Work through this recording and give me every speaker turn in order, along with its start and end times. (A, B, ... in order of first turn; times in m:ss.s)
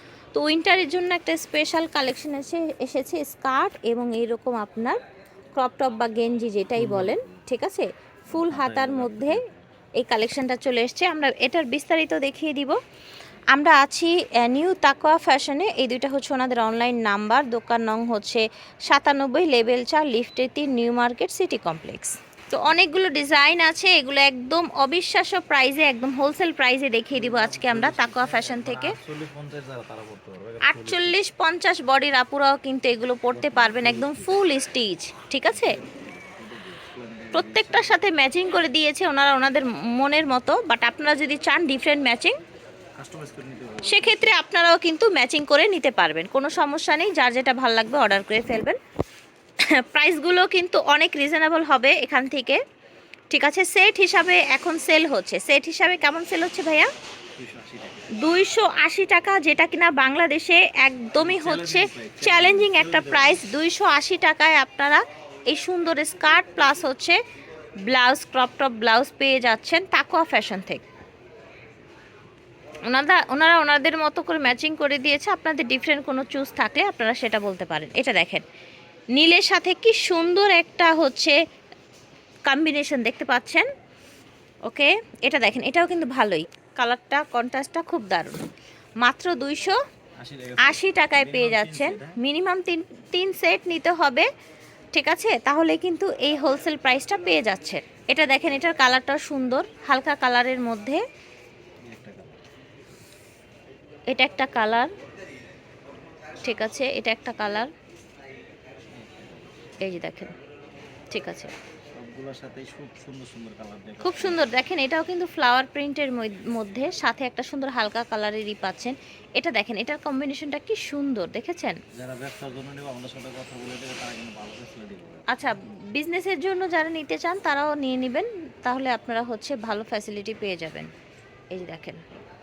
0:00.3-0:05.0 A
0:05.6-0:09.4 A
0:06.8-0:07.4 B
0:08.3-0:09.6 B
0:10.0-0:12.8 A
0:13.5-0:29.0 A
0:27.1-0:31.2 B
0:30.6-0:35.8 A
0:33.3-0:34.5 B
0:35.4-0:38.2 B
0:37.3-0:42.4 A
0:43.0-0:44.4 B
0:43.8-0:48.8 A
0:49.7-0:52.6 A
0:53.3-0:56.9 A
0:57.4-0:58.2 B
0:58.1-1:07.2 A
1:01.2-1:03.5 B
1:07.9-1:10.8 A
1:12.9-1:18.4 A
1:19.1-1:21.4 A
1:22.5-1:23.7 A
1:24.7-1:28.4 A
1:29.0-1:29.8 A
1:30.2-1:32.2 B
1:30.6-1:34.3 A
1:34.9-1:41.0 A
1:41.9-1:42.4 B
1:44.1-1:44.9 A
1:46.4-1:47.7 A
1:48.9-1:49.8 B
1:49.8-1:50.3 A
1:51.1-1:51.5 A
1:51.9-1:54.5 B
1:54.0-2:01.8 A
2:02.0-2:05.3 B
2:05.3-2:10.9 A
2:11.5-2:12.0 A